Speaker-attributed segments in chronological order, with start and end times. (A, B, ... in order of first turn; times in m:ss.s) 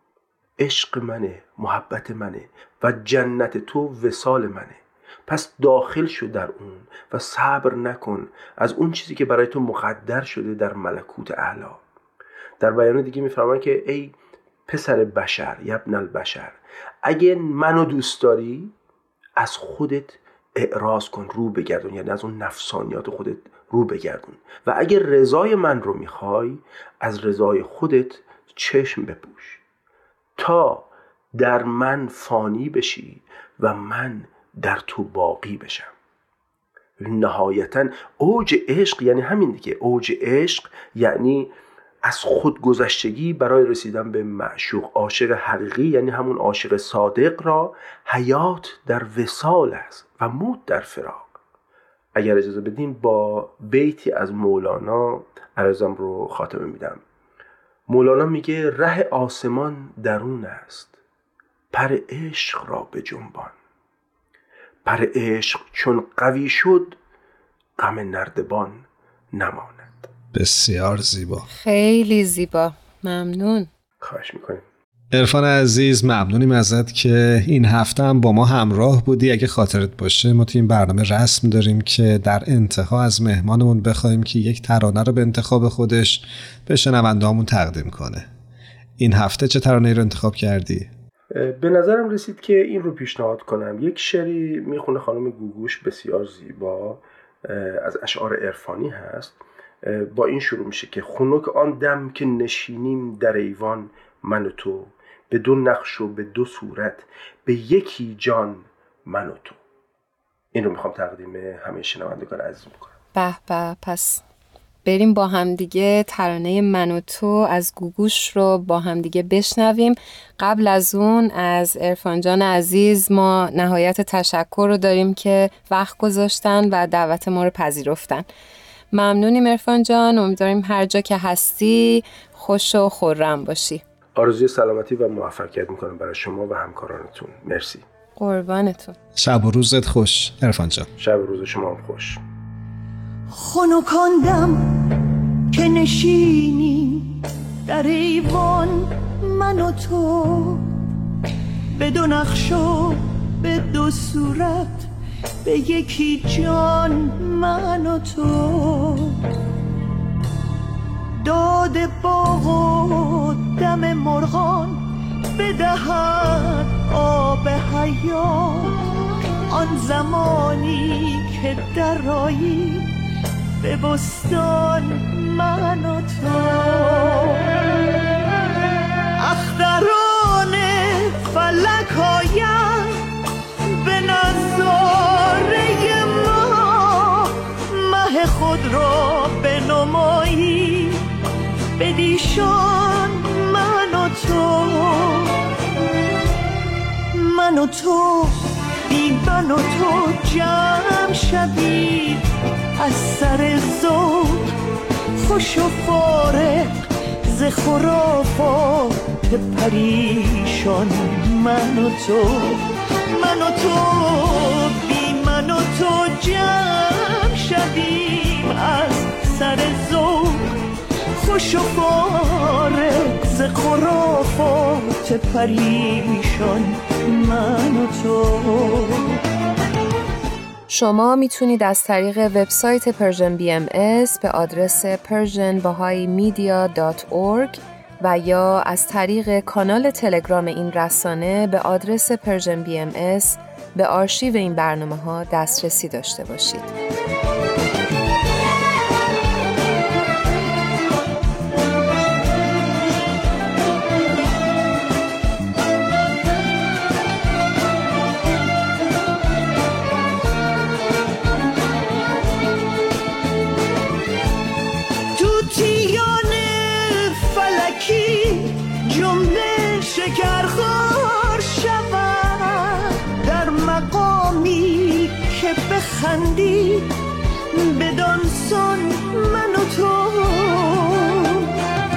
0:00.6-0:11.8 A
0:12.6-0:14.1 A
0:14.7-0:18.7 A
0:19.4-0:29.6 A
0:30.4-0:35.9 A
0:37.0-0:41.5 A
0:42.0-0:51.3 A
0:52.2-0:57.0 A
0:57.9-1:01.0 A
1:01.7-1:03.6 A
1:04.8-1:07.0 A
1:07.8-1:10.1 A
1:10.3-1:11.5 B
1:11.5-1:13.7 C
1:14.0-1:14.6 A
1:15.1-1:28.3 B
1:29.0-1:30.9 B
1:31.3-1:49.6 A
1:50.5-1:52.9 A
1:53.2-1:54.2 C
1:54.8-2:08.3 C
2:08.9-2:13.8 C
2:14.2-2:17.8 A
2:18.2-2:19.0 C
2:19.2-2:20.9 B
2:21.0-2:22.2 A
2:23.3-2:25.0 D
2:25.5-2:30.8 D
2:31.8-2:34.9 D
2:35.4-2:39.2 D
2:41.2-2:44.8 D
2:45.4-2:48.8 D
2:49.5-2:52.9 D
2:53.6-2:57.5 D
2:59.2-3:03.0 D
3:03.6-3:11.0 D
3:11.8-3:15.4 D
3:17.1-3:24.5 D
3:25.2-3:40.6 D
3:41.2-3:49.2 D
3:50.7-4:06.7 C
4:25.1-4:36.9 D
4:37.5-4:41.5 D